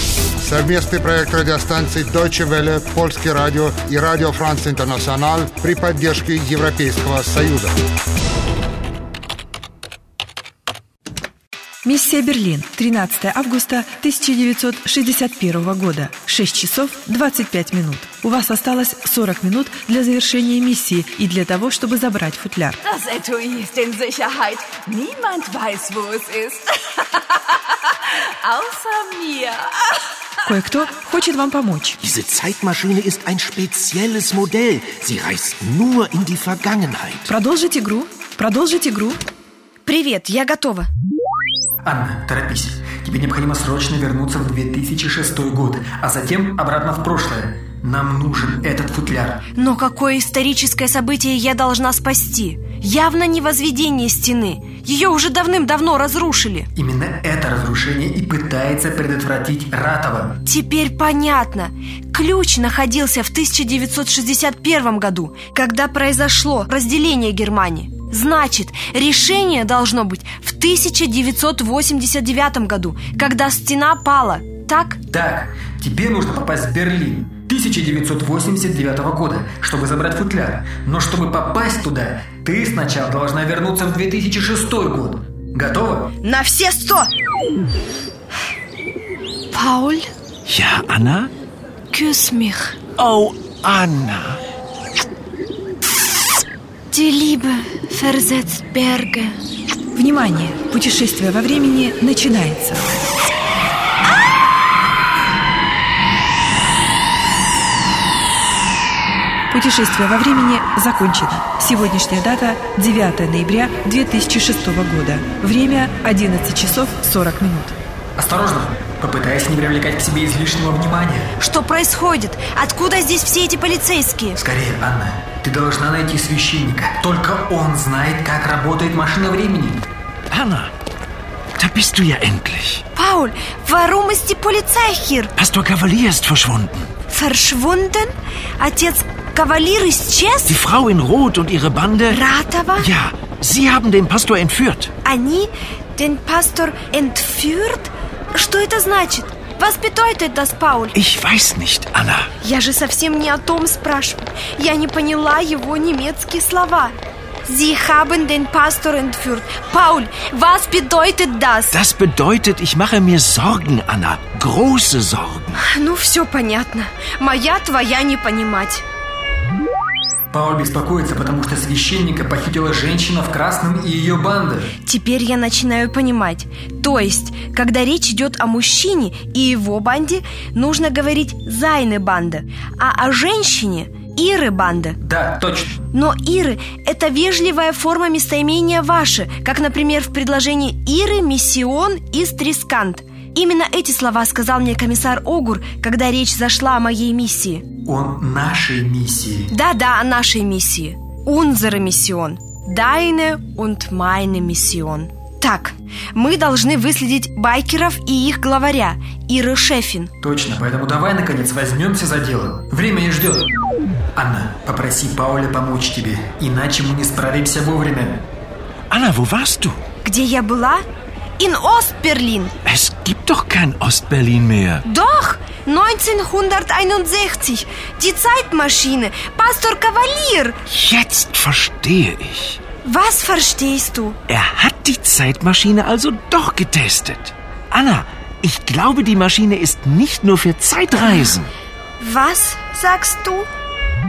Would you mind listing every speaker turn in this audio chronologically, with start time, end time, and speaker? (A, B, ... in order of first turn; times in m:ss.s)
0:00.4-0:07.8 A
0:11.8-0:22.9 B
0:23.0-0:26.6 C
0:28.5-0:29.6 C
0:30.4-0:32.0 B
0:32.0-0:37.3 D
0:37.3-0:39.2 B
0:39.8-0:40.9 E
0:41.8-0:49.4 F
0:49.5-0:56.7 E
0:56.7-1:00.4 F
1:00.4-1:15.0 E
1:15.1-1:26.1 F
1:26.2-1:27.1 E
1:29.5-1:30.1 E
1:30.5-1:31.3 D
1:31.9-1:32.8 E
1:33.0-1:34.4 D
1:36.9-1:39.4 E
1:39.9-1:43.0 B
1:49.5-1:57.8 B
1:58.2-2:01.3 F
2:01.4-2:04.4 E
2:04.4-2:09.8 F
2:10.3-2:10.7 D
2:11.6-2:12.8 D
2:12.9-2:15.3 E
2:15.4-2:16.9 D
2:17.1-2:20.6 E
2:20.4-2:22.2 D
2:22.1-2:22.9 E
2:22.8-2:24.9 D
2:25.0-2:31.0 E
2:30.9-2:32.3 D
2:32.4-2:41.8 E
2:41.7-2:45.6 D
2:45.5-2:48.8 E
2:50.3-2:54.7 F
2:54.8-3:05.0 E
3:05.0-3:05.8 F
3:05.9-3:17.7 E
3:17.8-3:19.5 F
3:19.5-3:30.1 E
3:30.2-3:33.5 F
3:34.2-3:38.2 F
3:38.9-3:39.8 D
3:40.0-3:40.8 E
3:41.4-3:42.5 E
3:42.6-3:44.8 D
3:44.8-3:50.6 E
3:50.7-3:52.6 D
3:52.8-3:54.2 E
3:54.3-4:01.5 D
4:02.0-4:03.5 E